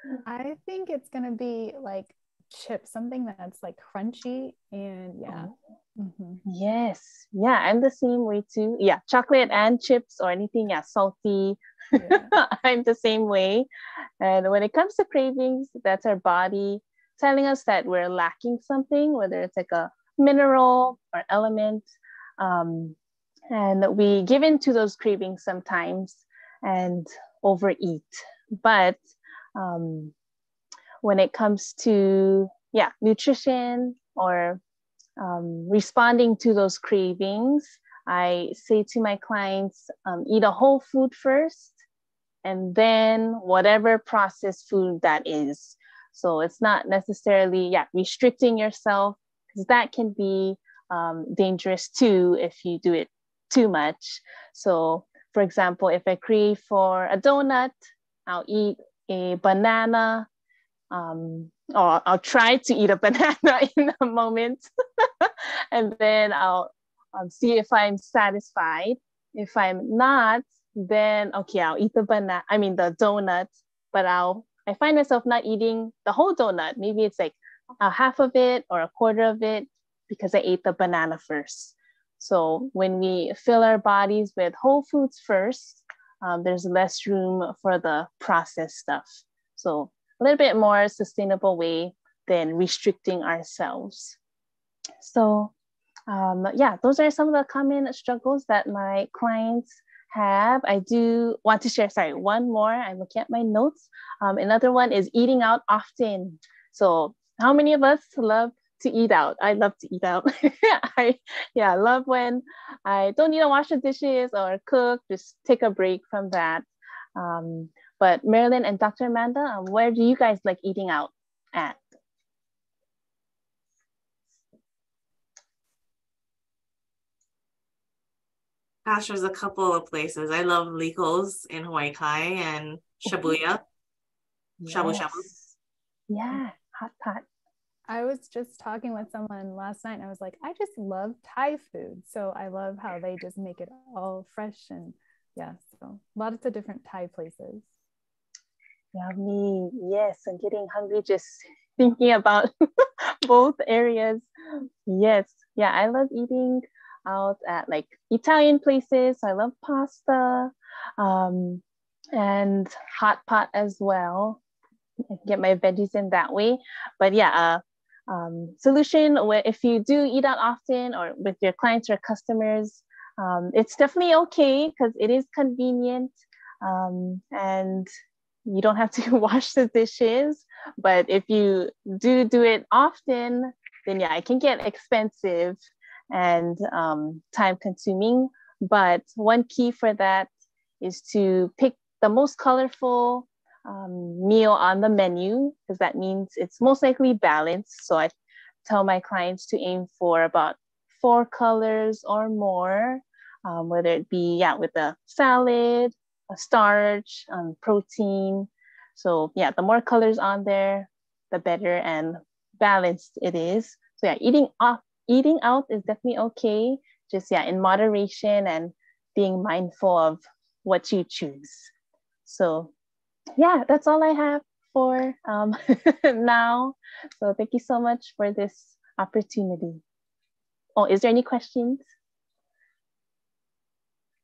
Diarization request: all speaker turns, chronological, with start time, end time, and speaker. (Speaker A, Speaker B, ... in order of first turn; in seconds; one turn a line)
Speaker A: 0.3-6.4
Speaker B: 6.5-13.7
Speaker A: 12.0-12.3
Speaker B: 14.2-21.9
Speaker B: 22.4-23.0
Speaker B: 23.5-29.0
Speaker B: 29.6-30.1
Speaker B: 31.0-34.6
Speaker B: 35.2-41.8
Speaker B: 42.4-57.7
Speaker B: 58.3-60.3
Speaker B: 60.9-94.2
Speaker B: 95.0-95.5
Speaker B: 96.1-116.7
Speaker B: 117.2-121.8
Speaker C: 128.9-133.6
Speaker B: 134.6-135.5
Speaker C: 134.7-135.3
Speaker B: 136.1-137.2
Speaker A: 137.9-147.7
Speaker B: 148.9-154.3
Speaker B: 154.9-161.6
Speaker B: 162.1-164.4
Speaker B: 165.1-177.9
Speaker B: 178.5-185.6
Speaker B: 186.1-190.3
Speaker B: 190.8-198.1
Speaker B: 198.7-221.7
Speaker B: 222.3-222.7
Speaker B: 223.4-229.8
Speaker B: 230.8-231.8